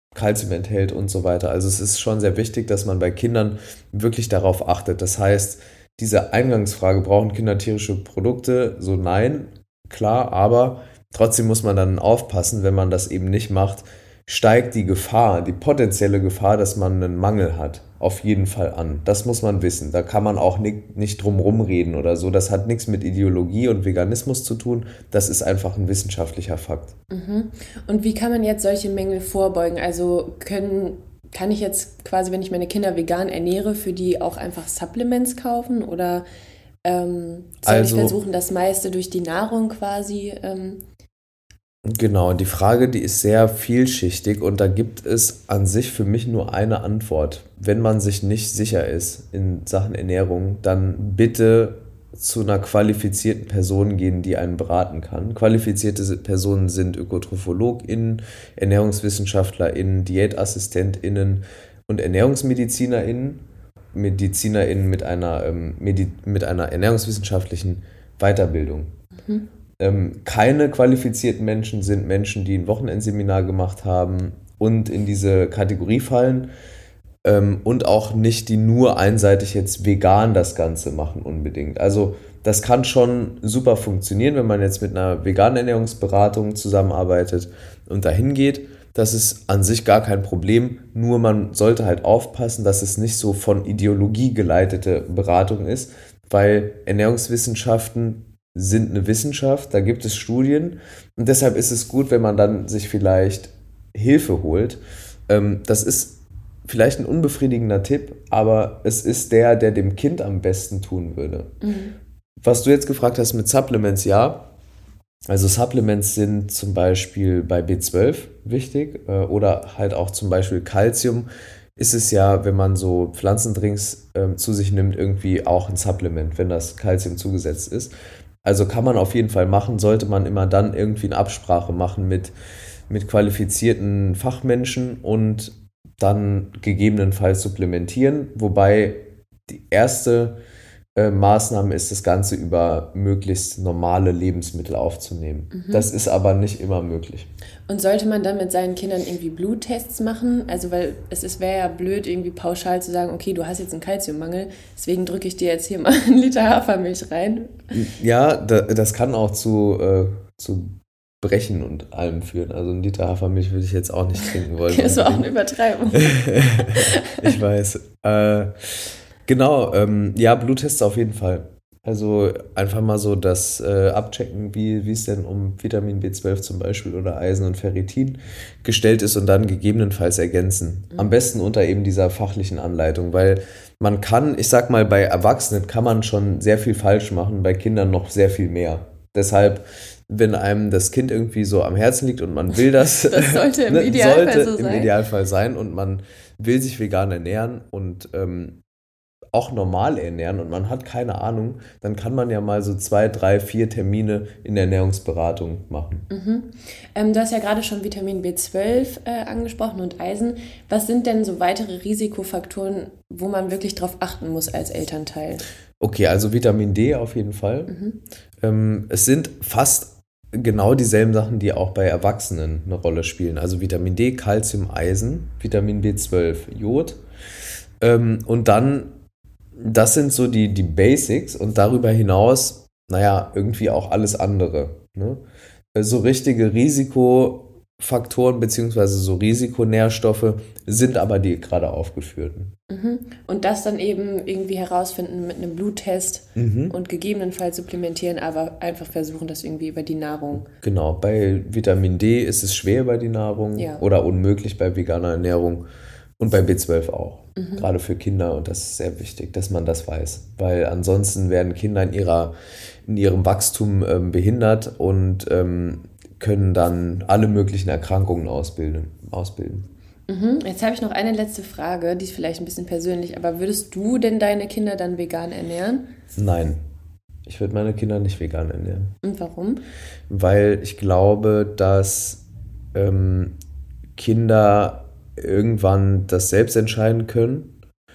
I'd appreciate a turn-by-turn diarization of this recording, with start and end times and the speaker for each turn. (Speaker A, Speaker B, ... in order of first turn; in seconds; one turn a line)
Speaker A: 0.1-26.9
Speaker B: 27.1-36.2
Speaker B: 36.8-40.8
Speaker A: 37.6-38.2
Speaker A: 41.9-63.4
Speaker A: 63.9-68.9
Speaker A: 69.8-76.5
Speaker A: 77.2-111.5
Speaker B: 111.6-112.0
Speaker A: 112.4-114.5
Speaker A: 115.3-132.3
Speaker A: 132.9-140.4
Speaker A: 141.0-147.3
Speaker B: 145.5-145.9
Speaker B: 147.7-157.6
Speaker A: 157.7-165.3
Speaker B: 164.7-167.2
Speaker A: 165.9-198.6
Speaker B: 193.0-194.9
Speaker A: 199.3-206.1
Speaker B: 206.1-215.5
Speaker A: 215.8-217.7
Speaker B: 217.7-218.0
Speaker A: 218.4-227.0
Speaker A: 227.8-228.9
Speaker A: 229.6-235.2
Speaker A: 235.8-242.5
Speaker B: 242.7-250.5
Speaker A: 246.3-246.8
Speaker A: 250.6-255.7
Speaker B: 253.6-253.8
Speaker A: 256.2-262.3
Speaker B: 257.4-257.6
Speaker A: 262.9-269.7
Speaker B: 270.1-275.9
Speaker A: 276.1-276.6
Speaker A: 277.2-278.9
Speaker B: 279.0-279.6
Speaker A: 280.1-283.4
Speaker A: 284.0-287.5